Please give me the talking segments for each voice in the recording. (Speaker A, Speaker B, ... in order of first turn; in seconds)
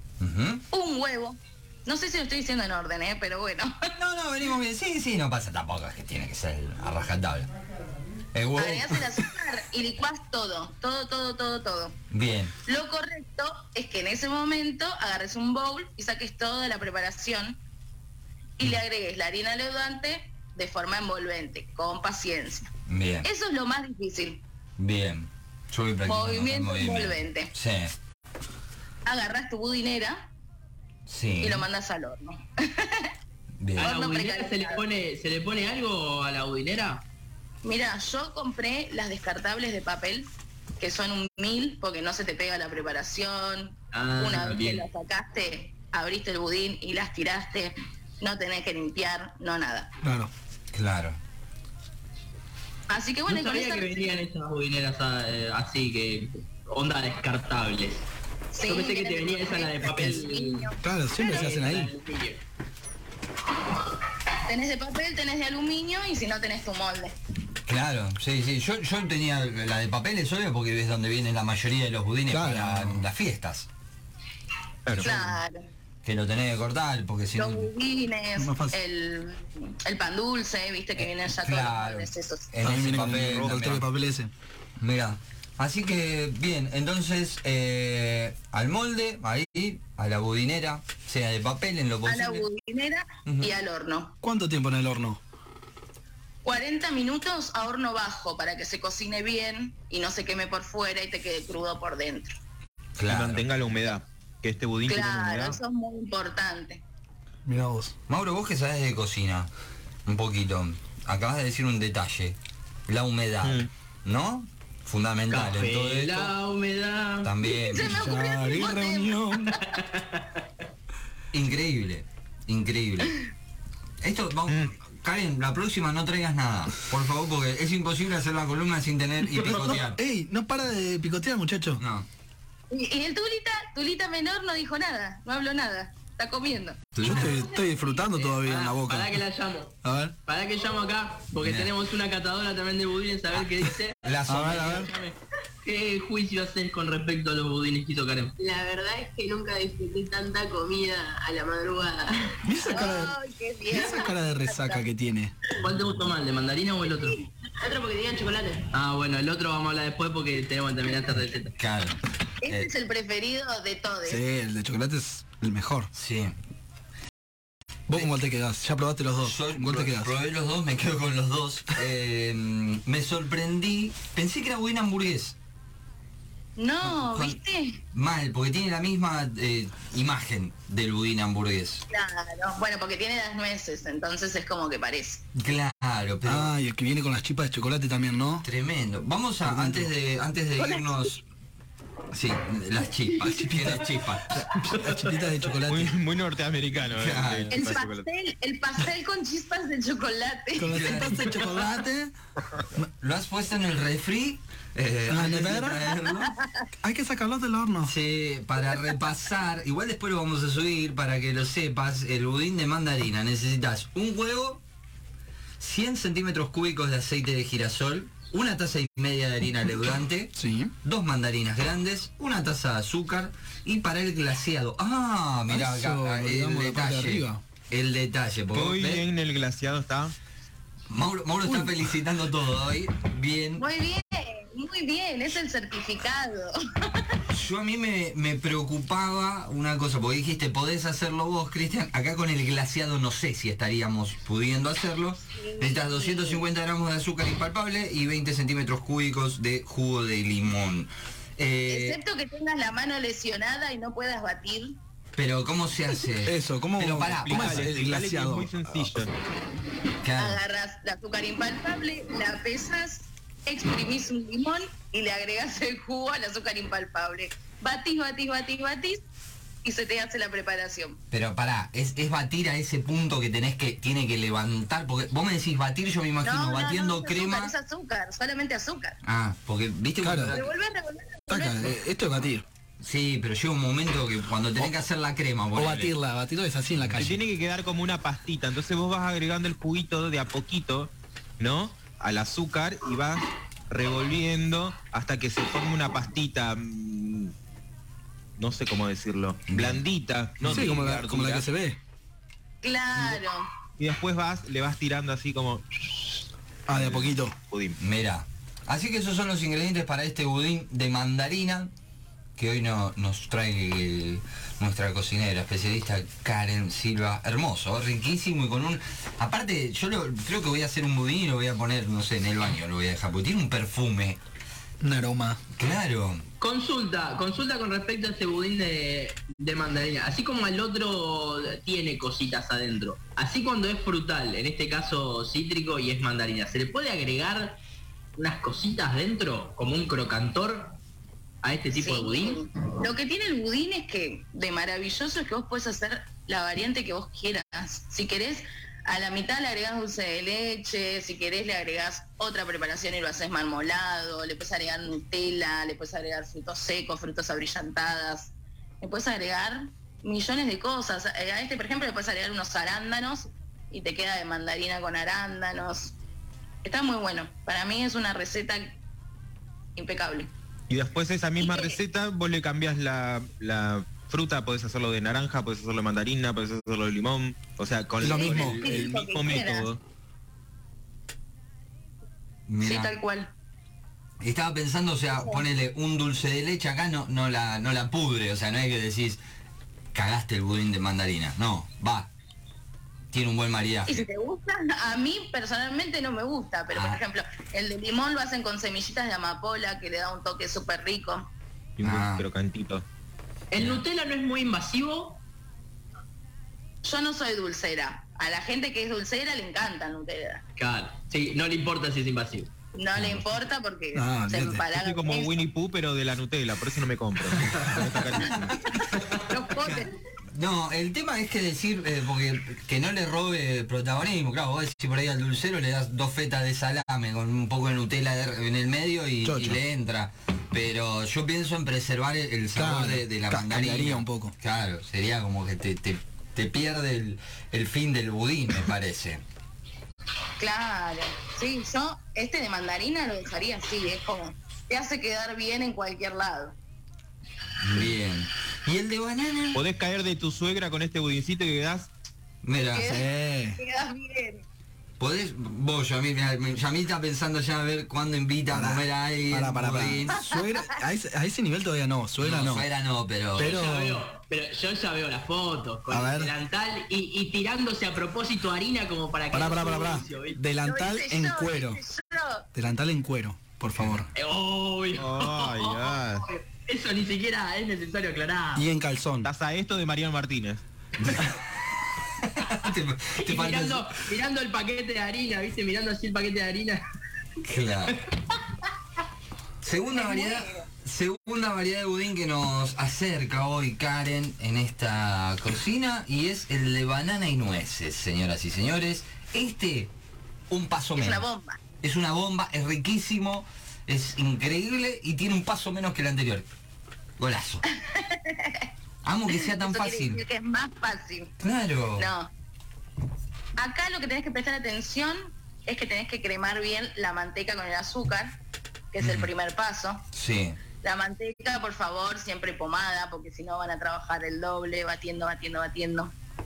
Speaker A: 0.2-0.7, 4.0-7.5, 8.3-9.0, 12.1-12.5, 22.9-23.3, 24.8-27.9, 31.1-31.7, 33.6-33.9, 50.7-51.2, 67.7-73.7, 75.0-75.4, 76.0-77.7, 81.0-83.8, 84.8-92.5, 93.3-93.5, 103.0-103.5, 108.1-109.5, 110.1-116.3, 117.2-118.0, 121.3-123.2, 124.0-130.0, 131.8-132.1, 136.9-137.4, 141.4-141.7, 144.0-144.9, 161.6-162.7, 165.9-166.3, 169.2-175.4, 176.8-177.4, 177.9-181.8, 185.3-186.5, 188.4-191.2, 192.1-194.4, 196.9-197.7, 200.7-201.5, 203.0-206.4, 207.8-214.6, 215.6-229.1, 230.9-233.7, 237.3-252.0, 255.2-257.7, 260.0-260.4, 271.1-277.5, 279.0-280.5, 282.8-285.9, 299.5-299.8, 300.4-300.7, 307.8-311.7, 312.4-324.2, 325.6-326.2, 382.5-382.9, 384.2-389.2, 389.9-392.1, 393.1-394.1, 396.7-397.0, 401.8-402.2, 403.6-403.8, 412.9-413.3, 418.2-418.5, 419.6-439.2, 447.6-449.6, 452.4-453.0, 455.0-460.2, 462.2-463.6, 473.8-474.1, 481.0-481.4, 482.2-483.9, 487.4-488.0, 489.6-499.9, 500.5-501.3, 501.8-506.5, 507.2-507.6, 509.0-510.2, 511.4-512.1, 519.0-519.3, 520.1-520.6
Speaker B: 0.7-3.9, 8.6-12.0, 12.7-17.6, 18.6-22.7, 23.2-24.4, 26.1-27.5, 29.1-30.3, 31.4-33.1, 33.8-34.8, 37.6-49.9, 52.9-54.1, 58.5-60.8, 64.5-67.2, 75.0-75.7, 77.4-82.5, 92.1-94.2, 96.4-102.4, 104.9-106.8, 117.5-119.6, 132.7-136.8, 152.7-154.8, 162.4-164.2, 176.6-177.8, 181.9-185.2, 190.6-191.1, 197.5-201.1, 233.6-237.1, 245.3-246.4, 251.7-254.8, 260.2-269.0, 269.6-271.0, 276.2-279.0, 280.3-281.8, 302.6-303.5, 341.8-365.9, 366.6-368.7, 369.8-370.3, 371.4-371.8, 378.0-379.7, 382.6-383.3, 385.2-385.4, 393.9-401.3, 406.8-410.4, 412.8-415.4, 418.6-419.9, 440.4-446.6, 452.7-454.5, 470.6-472.5, 489.9-490.7, 501.0-501.6, 507.7-508.7, 509.3-511.3, 512.0-512.3, 513.6-518.4, 518.9-520.0, 520.8-526.1
Speaker C: 33.8-37.0, 43.9-44.9, 53.3-58.0, 58.6-62.4, 115.3-117.3, 119.7-120.4, 138.2-148.4, 155.6-157.2, 158.7-161.5, 194.6-195.5, 326.4-337.6, 338.2-340.8, 341.4-342.4, 403.5-405.2, 410.6-412.5, 463.4-470.4, 474.1-478.7, 483.2-486.8
Speaker D: 50.0-50.3, 60.8-61.9, 72.3-73.0, 78.4-78.8, 82.6-84.3, 94.2-95.2, 107.5-108.0, 117.8-119.6, 130.0-131.8, 137.0-139.2, 139.8-140.2, 144.3-144.9, 152.4-155.3, 164.1-165.9, 167.9-170.1, 186.2-188.4, 189.5-189.9, 193.3-195.9, 200.6-202.1, 205.1-205.8, 206.8-207.9, 220.4-220.7, 225.5-227.4, 231.5-231.7, 256.2-259.0, 280.0-280.4, 281.3-282.4, 285.6-287.2, 300.4-301.8, 306.7-307.4, 324.8-325.4, 378.0-379.0, 413.9-414.6, 429.2-429.6, 432.6-434.3, 452.9-453.6, 458.5-462.7, 463.4-464.1, 465.9-466.3, 469.3-471.8, 472.5-474.1, 478.6-479.3
Speaker E: 74.9-75.2, 83.2-83.5, 103.1-105.6, 113.4-113.7, 195.7-198.1, 228.5-230.2, 257.2-259.1, 286.9-297.3, 298.4-301.5, 303.8-307.8, 370.7-379.8, 401.8-402.9, 414.7-418.7, 449.5-451.9, 475.0-476.3, 479.2-480.6
Speaker F: 148.4-152.4, 157.6-158.7